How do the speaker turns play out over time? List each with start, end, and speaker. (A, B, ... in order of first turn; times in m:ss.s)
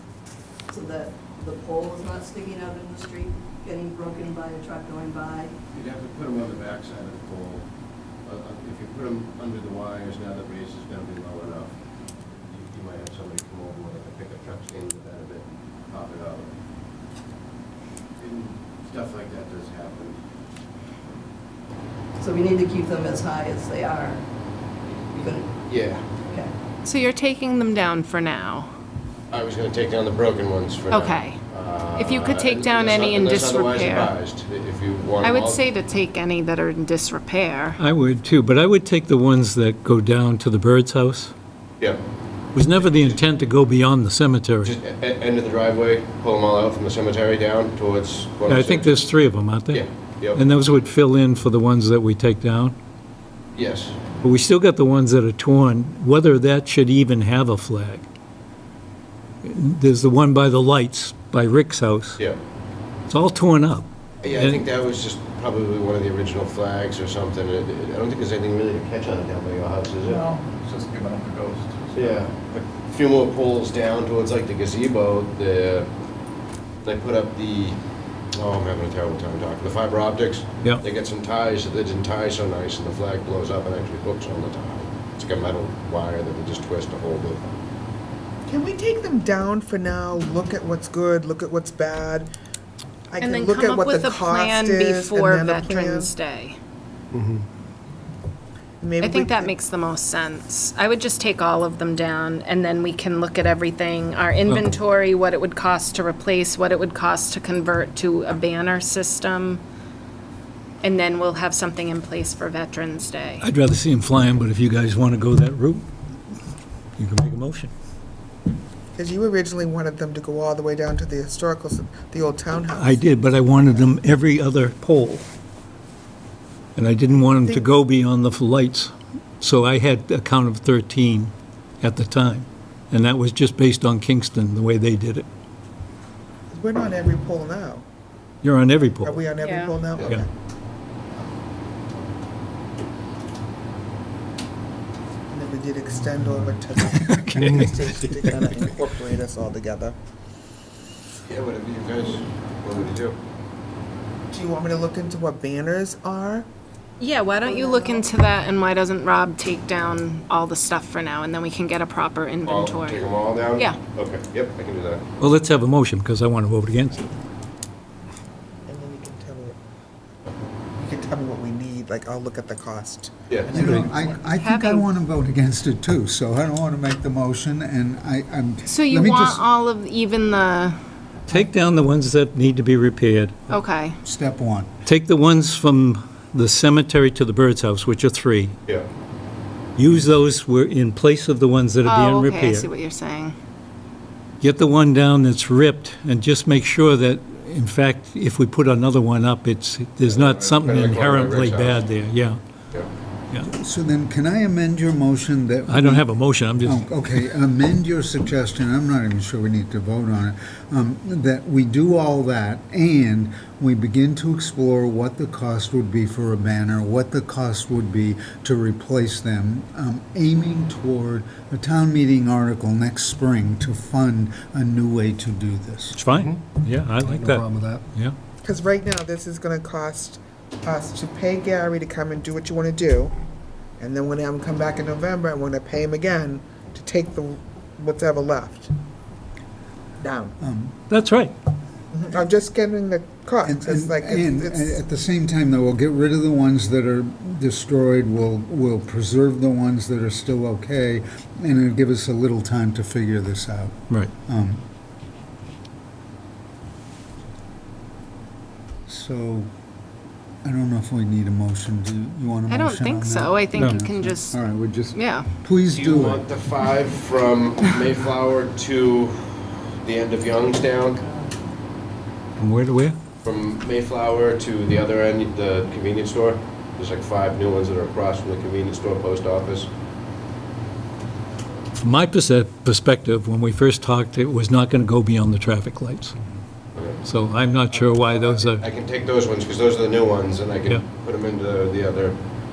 0:00.7-0:05.5 A
0:05.7-0:07.6 B
0:08.2-0:11.7 B
0:12.3-0:16.5 B
0:18.2-0:20.2 B
0:22.2-0:24.2 A
0:25.1-0:25.5 A
0:25.5-0:26.3 B
0:26.8-0:28.7 C
0:29.3-0:35.6 B
0:30.9-0:31.4 C
0:32.0-0:34.1 C
0:35.2-0:37.8 C
0:37.8-0:41.3 D
0:42.6-0:44.7 D
0:42.7-0:43.2 B
0:44.6-0:50.4 B
0:48.5-0:52.8 D
0:53.5-0:54.0 B
0:54.2-0:58.1 D
0:59.4-1:02.2 D
1:03.1-1:04.6 D
1:04.2-1:10.3 B
1:10.1-1:12.2 E
1:11.9-1:15.9 B
1:16.8-1:17.8 B
1:18.3-1:27.5 B
1:28.5-1:32.3 F
1:33.1-1:36.1 F
1:33.2-1:36.6 C
1:37.1-1:37.4 E
1:38.8-1:39.6 F
1:39.0-1:49.6 C
1:50.8-1:53.4 C
1:53.4-1:55.9 D
1:57.0-1:57.7 D
1:59.0-2:03.0 F
2:02.7-2:05.3 D
2:06.8-2:15.3 D
2:07.3-2:07.7 F
2:16.5-2:17.8 F
2:18.4-2:19.2 D
2:19.0-2:20.3 F
2:19.4-2:19.9 C
2:20.0-2:20.2 D
2:25.3-2:30.0 F
2:26.9-2:28.6 D
2:31.3-2:33.2 B
2:34.3-2:36.5 F
2:37.0-2:43.1 C
2:37.4-2:38.0 F
2:42.5-2:45.0 B
2:45.2-2:47.1 D
2:48.7-2:49.6 F
2:50.8-2:54.2 F
2:53.5-2:59.4 G
2:53.6-2:53.9 D
2:54.4-2:54.9 C
2:58.7-3:00.8 C
3:01.3-3:03.4 D
3:03.5-3:04.0 C
3:04.0-3:04.7 G
3:04.9-3:08.6 D
3:09.8-3:12.7 D
3:11.8-3:13.4 C
3:14.4-3:22.4 D
3:20.0-3:21.9 B
3:23.5-3:46.0 G
3:25.7-3:26.8 D
3:45.9-3:48.2 D
3:46.1-3:47.8 E
3:48.4-3:53.1 F
3:53.8-3:58.7 F
4:00.0-4:00.4 F
4:00.4-4:00.7 G
4:00.9-4:01.3 D
4:01.9-4:04.8 F
4:03.4-4:14.6 G
4:18.9-4:19.5 G
4:20.4-4:26.2 G
4:22.5-4:25.3 C
4:25.7-4:31.1 B
4:32.4-4:33.0 D
4:33.2-4:39.7 B
4:41.8-4:46.2 D
4:46.7-4:47.1 B
4:47.0-4:48.6 D
4:47.7-4:52.2 B